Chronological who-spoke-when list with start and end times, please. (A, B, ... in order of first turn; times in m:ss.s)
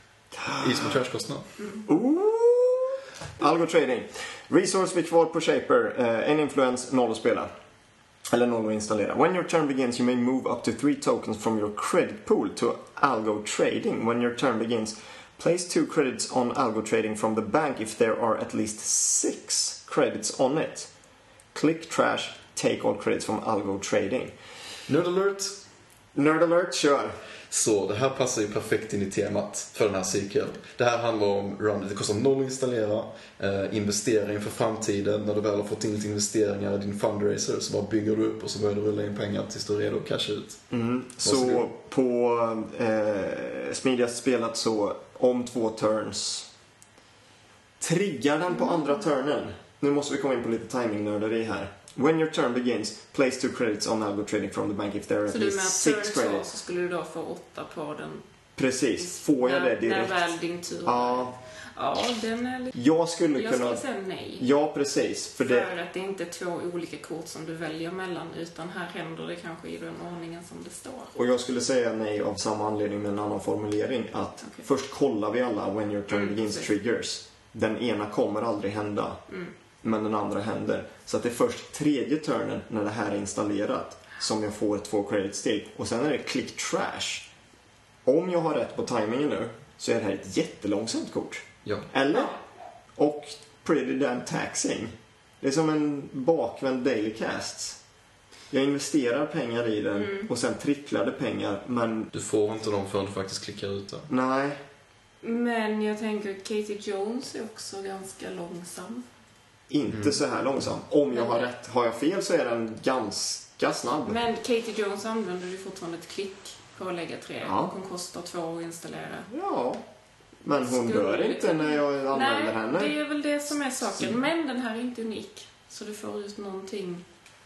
0:00.4-0:01.0 A
0:00.6-0:01.5 B
0:01.6-0:01.8 C
0:01.9-0:07.5 A
0:08.3-0:20.9 A
0:21.5-0:24.3 A
0:24.9-0:25.6 B
0:26.2-0:27.2 A
0:27.5-0:40.6 B
0:40.7-0:46.5 A
0:41.2-0:41.7 B
0:47.8-0:56.5 A
0:48.6-0:48.9 C
0:55.3-0:58.2 C
0:58.6-1:00.3 A
0:59.0-1:02.8 C
1:00.8-1:01.3 A
1:02.7-1:03.8 A
1:03.3-1:04.5 C
1:04.4-1:05.7 A
1:05.4-1:11.1 C
1:11.2-1:19.2 A
1:16.1-1:16.7 C
1:19.8-1:27.3 A
1:28.0-1:32.4 A
1:33.0-1:37.8 A
1:38.5-1:42.1 A
1:40.0-1:40.3 C
1:42.1-1:44.1 B
1:44.1-1:44.6 A
1:45.2-1:49.0 C
1:49.7-1:54.2 A
1:49.9-1:50.2 B
1:51.1-1:51.5 C
1:54.0-1:59.3 C
1:57.4-1:57.7 A
1:59.3-1:59.8 A
2:00.4-2:03.0 A
2:00.5-2:07.0 C